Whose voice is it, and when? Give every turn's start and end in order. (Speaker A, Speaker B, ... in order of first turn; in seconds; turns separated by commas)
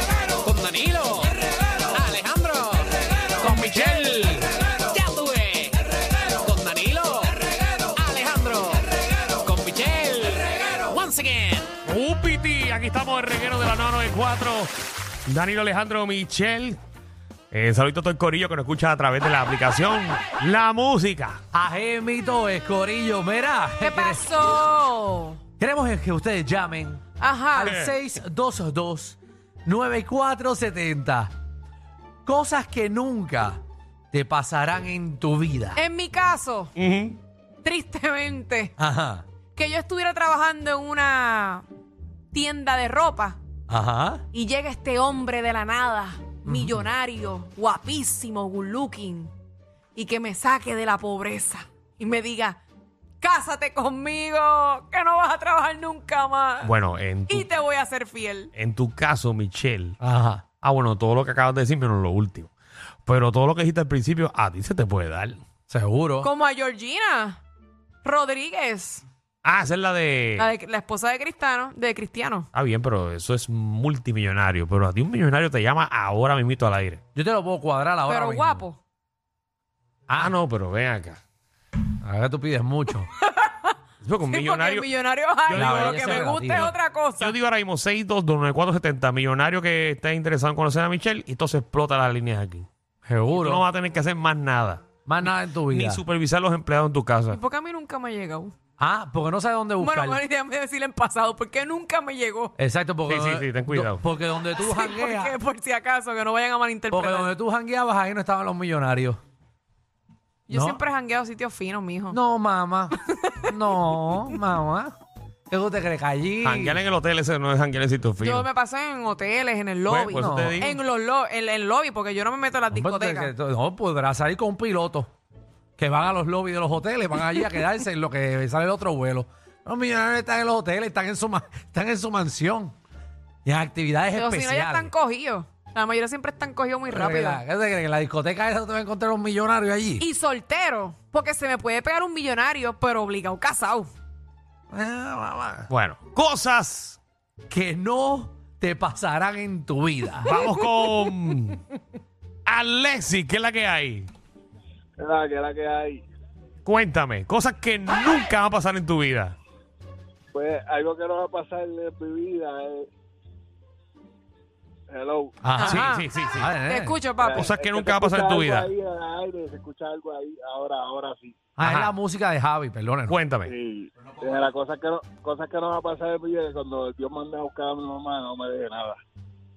Speaker A: 0.4-11.7, Speaker B: 3.5-4.1, Speaker B: 11.8-14.7, Speaker B: 15.2-16.8, Speaker B: 17.5-21.4, Speaker C: 21.5-24.5, Speaker D: 23.8-25.4, Speaker C: 25.6-31.3, Speaker D: 27.2-27.8, Speaker B: 27.6-27.9, Speaker C: 32.2-33.6, Speaker C: 34.1-35.8, Speaker D: 35.7-36.7, Speaker B: 36.8-37.2, Speaker D: 37.6-38.7, Speaker C: 38.8-39.2, Speaker D: 39.5-41.6, Speaker D: 42.3-43.4, Speaker C: 43.7-44.2, Speaker D: 44.3-49.3, Speaker C: 46.5-46.8, Speaker D: 50.0-52.6, Speaker D: 53.2-56.7, Speaker B: 56.6-57.5, Speaker D: 57.3-58.5, Speaker B: 58.5-60.0, Speaker C: 60.0-60.4, Speaker B: 60.6-62.5, Speaker B: 63.0-65.4, Speaker C: 65.7-66.3, Speaker D: 66.2-67.4, Speaker D: 68.0-69.0, Speaker B: 69.4-70.5, Speaker D: 70.4-72.5, Speaker B: 72.5-77.0, Speaker C: 77.1-78.6, Speaker D: 78.1-78.8, Speaker C: 80.1-80.3, Speaker B: 80.1-81.2, Speaker C: 82.0-83.1, Speaker D: 83.2-83.7, Speaker B: 84.0-84.9, Speaker D: 84.3-87.3, Speaker B: 85.5-92.7, Speaker C: 85.5-86.7, Speaker C: 93.0-93.7, Speaker B: 93.3-97.4, Speaker C: 95.0-96.0, Speaker D: 97.3-98.5, Speaker C: 98.8-100.2, Speaker D: 99.8-102.5, Speaker C: 102.6-105.3, Speaker B: 103.1-104.0, Speaker D: 104.5-107.3, Speaker C: 106.9-109.2, Speaker D: 110.5-112.2, Speaker C: 110.5-110.8, Speaker C: 112.1-112.9, Speaker D: 113.0-114.3, Speaker C: 113.5-114.9, Speaker C: 115.5-116.8, Speaker B: 116.4-118.5, Speaker D: 118.2-123.3, Speaker B: 119.8-120.8, Speaker C: 120.1-120.7, Speaker C: 122.7-125.1, Speaker C: 125.8-132.7, Speaker C: 133.4-134.9, Speaker D: 134.1-137.4, Speaker C: 136.9-140.1, Speaker D: 140.0-143.9, Speaker C: 144.7-145.7, Speaker B: 145.7-147.0, Speaker C: 147.5-150.3, Speaker B: 150.2-151.6, Speaker D: 150.2-150.5, Speaker B: 152.4-154.1, Speaker E: 155.0-156.0, Speaker B: 156.6-159.3, Speaker E: 160.3-162.9, Speaker E: 164.9-165.3, Speaker C: 165.4-167.0, Speaker D: 165.6-167.5, Speaker B: 165.6-166.5, Speaker E: 167.2-171.3, Speaker B: 167.3-168.7, Speaker C: 171.6-173.2, Speaker B: 171.6-171.9, Speaker B: 173.1-173.5, Speaker E: 173.4-179.0